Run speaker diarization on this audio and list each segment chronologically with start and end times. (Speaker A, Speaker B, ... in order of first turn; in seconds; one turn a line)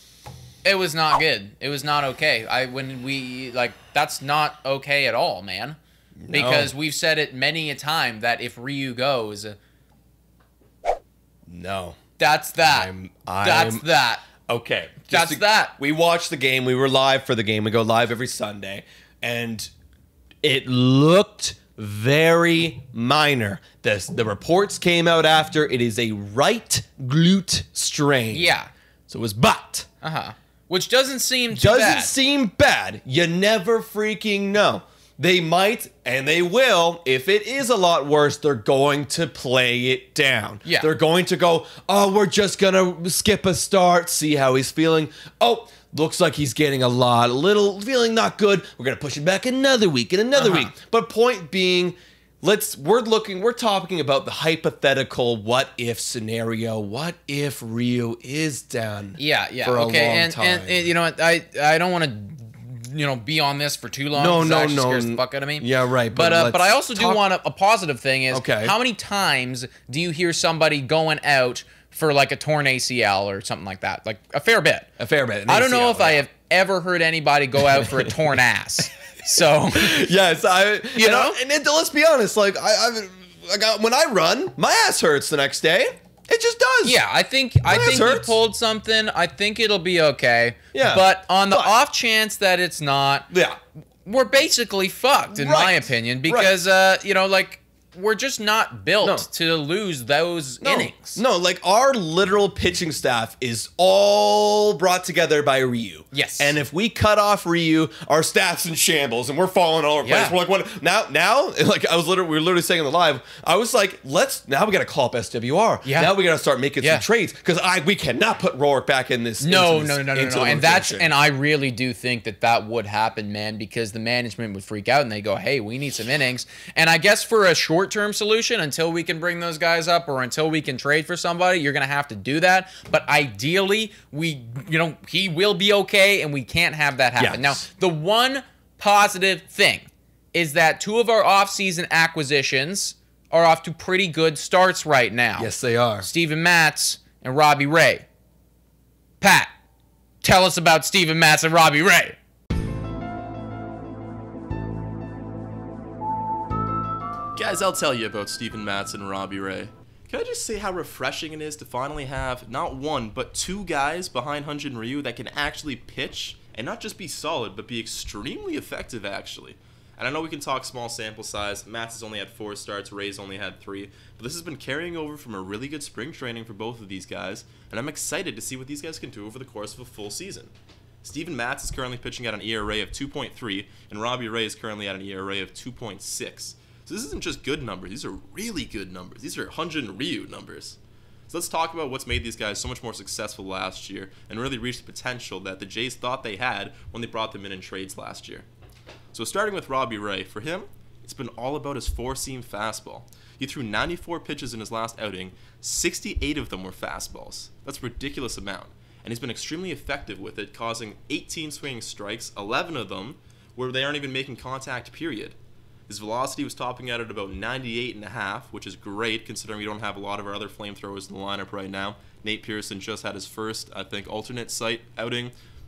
Speaker A: 0.6-5.8
Speaker B: 6.2-6.7
Speaker A: 6.3-9.6
Speaker B: 11.5-12.0
Speaker A: 12.2-14.2
Speaker B: 12.6-13.8
Speaker B: 14.4-19.7
Speaker A: 15.1-15.8
Speaker B: 20.4-28.5
Speaker A: 28.3-28.7
Speaker B: 29.1-29.9
Speaker A: 30.0-32.1
Speaker B: 31.5-60.9
Speaker A: 40.6-40.9
Speaker A: 50.3-50.7
Speaker A: 59.2-74.9
Speaker B: 64.2-67.2
Speaker B: 68.3-68.8
Speaker B: 75.0-76.2
Speaker A: 75.5-80.1
Speaker B: 77.6-78.2
Speaker B: 79.7-87.0
Speaker A: 80.9-81.4
Speaker A: 86.8-93.3
Speaker B: 87.7-88.4
Speaker B: 90.7-91.7
Speaker B: 93.3-93.6
Speaker A: 94.0-101.2
Speaker B: 95.3-96.5
Speaker B: 100.6-121.1
Speaker A: 106.1-106.5
Speaker A: 110.0-110.3
Speaker A: 115.8-116.1
Speaker A: 119.4-145.5
Speaker B: 137.2-137.6
Speaker B: 145.4-146.1
Speaker A: 146.0-148.1
Speaker A: 149.2-149.5
Speaker A: 150.2-152.2
Speaker C: 157.3-190.8
Speaker C: 191.3-198.5
Speaker C: 199.1-215.4
Speaker C: 215.9-225.3